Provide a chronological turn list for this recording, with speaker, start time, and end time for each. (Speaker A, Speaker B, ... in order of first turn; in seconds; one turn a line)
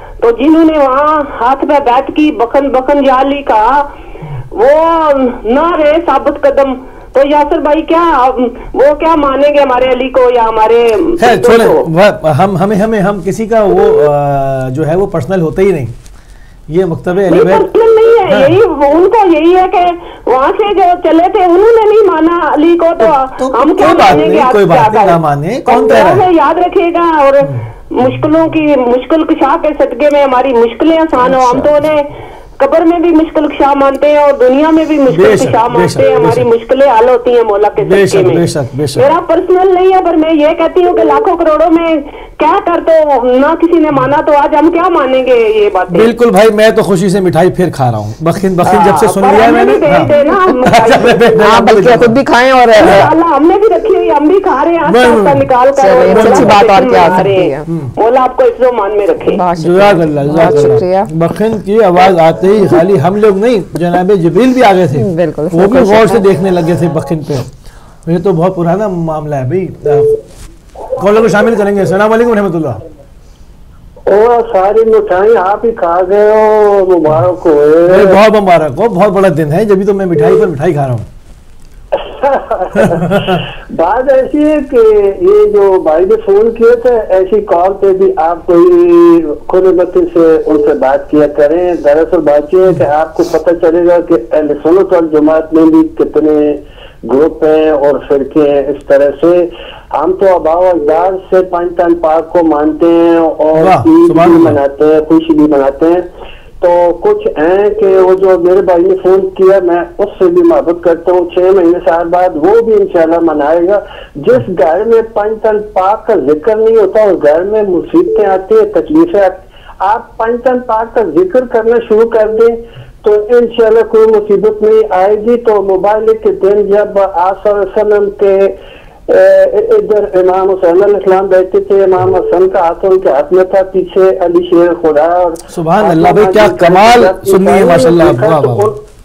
Speaker A: 0.2-3.9
Speaker A: 4.5-11.8
Speaker B: 11.2-15.9
Speaker B: 16.7-17.7
Speaker A: 17.3-38.4
Speaker B: 18.2-18.6
Speaker B: 23.0-26.3
Speaker B: 27.4-27.7
Speaker B: 35.1-36.5
Speaker B: 37.8-39.1
Speaker A: 38.9-46.1
Speaker B: 45.9-52.2
Speaker A: 48.6-51.2
Speaker C: 51.4-53.1
Speaker A: 52.8-59.4
Speaker B: 52.8-53.0
Speaker B: 54.8-57.9
Speaker C: 55.8-57.7
Speaker C: 59.3-61.1
Speaker B: 59.6-67.5
Speaker C: 64.9-66.3
Speaker B: 68.0-70.2
Speaker B: 70.9-72.8
Speaker D: 74.1-78.2
Speaker B: 77.8-81.1
Speaker D: 81.9-106.0
Speaker B: 82.7-83.4
Speaker B: 103.5-104.6
Speaker D: 106.6-128.6
Speaker D: 129.1-138.8
Speaker B: 135.5-138.8